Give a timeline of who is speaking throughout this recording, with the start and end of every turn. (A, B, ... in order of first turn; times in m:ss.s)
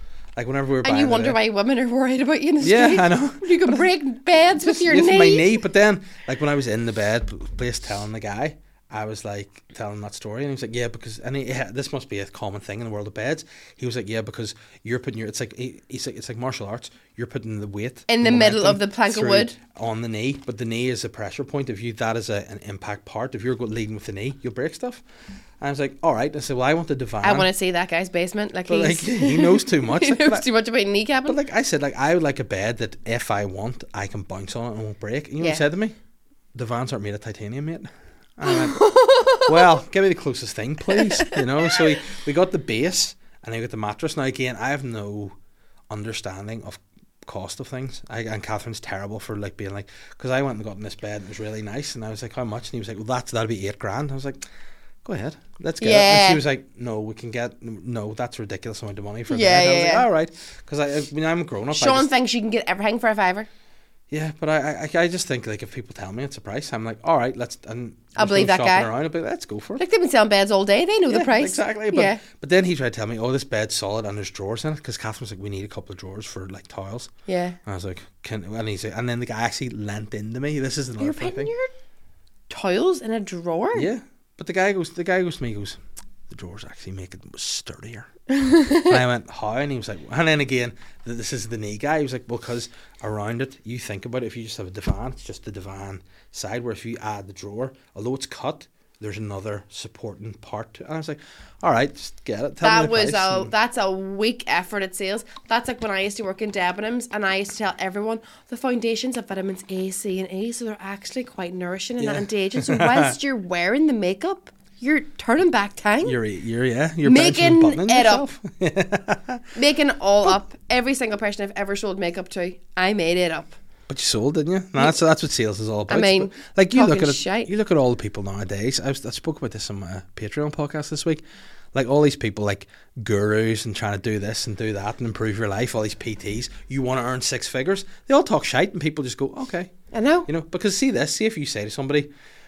0:00.4-0:01.4 A
0:00.8-0:05.6 B
0:02.6-0:03.7 A
0:04.7-0:25.0 A
0:18.1-0:19.6 B
0:25.6-0:27.5 A
0:27.2-0:31.4 B
0:28.7-0:30.5 A
0:31.2-0:35.9 A
0:36.5-0:45.3 A
0:38.4-0:39.7 B
0:40.9-0:41.4 B
0:45.9-0:54.4 A
0:55.0-1:02.1 A
0:55.8-0:56.4 B
0:59.3-1:00.0 B
1:01.7-1:03.5 B
1:04.1-1:09.8 A
1:08.1-1:08.9 B
1:09.8-1:12.2 B
1:11.1-1:17.1 A
1:17.3-1:17.6 B
1:17.6-1:21.5 A
1:21.0-1:21.7 B
1:22.5-1:23.9 B
1:23.7-1:28.1 A
1:28.4-1:29.0 B
1:28.7-1:43.5 A
1:42.6-1:56.2 B
1:52.0-1:53.2 A
1:56.0-1:59.5 A
1:57.0-1:58.3 B
1:59.5-2:03.6 B
2:03.9-2:11.2 A
2:05.9-2:07.5 B
2:11.7-2:19.7 A
2:19.9-2:20.3 B
2:20.2-2:22.1 A